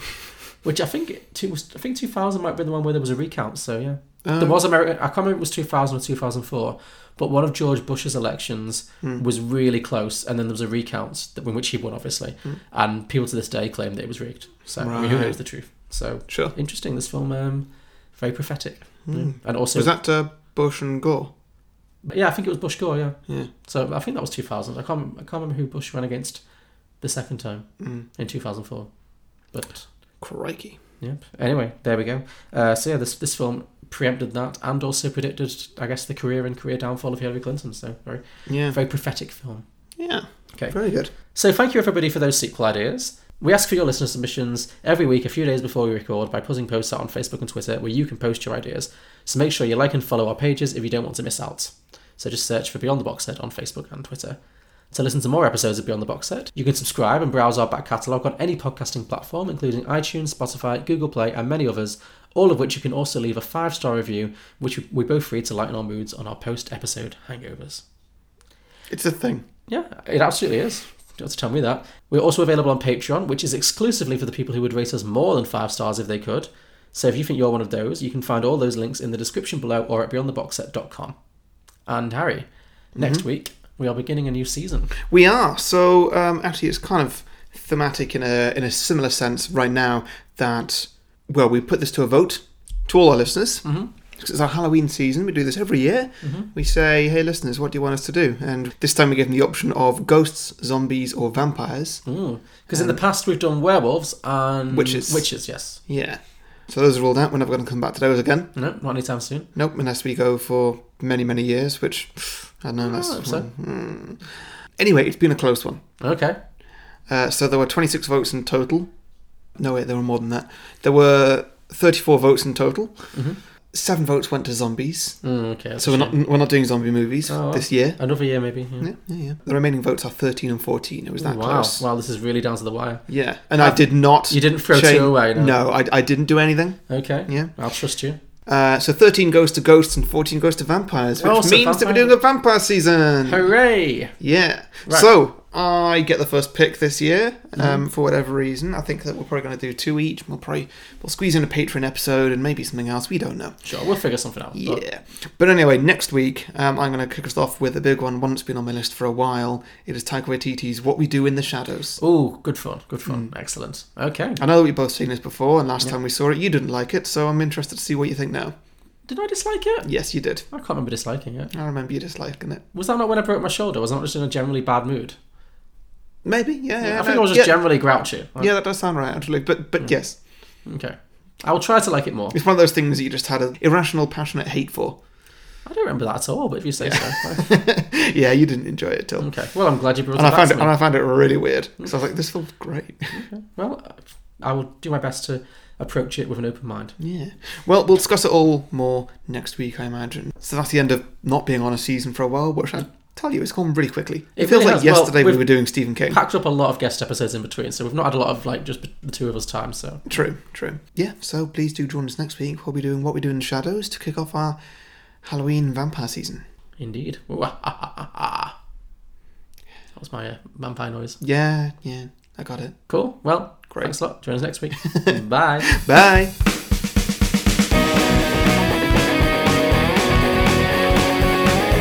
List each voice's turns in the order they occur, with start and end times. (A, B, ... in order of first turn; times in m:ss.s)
0:00.6-0:19.9 A
0:04.2-0:04.6 B
0:14.8-0:16.5 B
0:19.1-0:21.3 B
0:22.0-0:26.4 A
0:27.0-0:29.9 A
0:27.8-0:28.0 B
0:30.2-0:30.8 B
0:31.0-0:39.6 A
0:38.5-0:38.8 B
0:40.0-0:41.1 B
0:40.6-0:54.4 A
0:54.9-1:07.8 A
1:08.9-1:09.4 B
1:09.7-1:21.1 A
1:21.8-1:24.9 A
1:23.0-1:23.2 B
1:25.1-1:42.0 B
1:33.6-1:33.9 A
1:36.2-1:36.5 A
1:42.0-1:45.8 A
1:42.7-1:43.0 B
1:44.7-1:48.5 B
1:48.5-1:49.5 A
1:49.5-1:55.8 B
1:52.8-1:53.5 A
1:56.0-1:56.4 A
1:57.0-2:03.2 B
2:03.1-2:03.4 A
2:03.7-2:05.2 B
2:05.2-2:06.2 A
2:05.8-2:08.0 B
2:07.3-2:08.9 A
2:08.8-2:11.8 B
2:11.2-2:15.6 A
2:13.1-2:17.5 B
2:16.9-2:18.2 A
2:18.4-2:23.5 B
2:21.2-2:22.1 A
2:23.2-2:24.2 A
2:24.2-2:33.6 B
2:27.6-2:27.8 A
2:33.6-2:34.8 A
2:34.5-2:42.0 B
2:42.0-2:44.4 A
2:43.0-2:43.3 B
2:44.4-2:48.5 B
2:49.1-2:51.5 A
2:49.8-2:50.4 B
2:51.5-2:52.6 B
2:52.7-2:55.2 A
2:56.2-3:00.2 B
2:56.8-2:58.5 A
2:59.8-3:02.4 A
3:02.3-3:05.0 B
3:05.6-3:07.5 A
3:06.8-3:09.4 B
3:09.2-3:10.8 A
3:10.1-3:13.2 B
3:13.1-3:17.0 A
3:17.0-3:26.2 B
3:24.4-3:30.1 A
3:30.1-3:34.6 B
3:35.2-3:36.4 B
3:36.8-3:38.5 A
3:40.0-3:41.2 A
3:41.2-3:42.9 B
3:42.9-3:45.8 A
3:44.9-3:45.1 B
3:45.7-3:46.3 B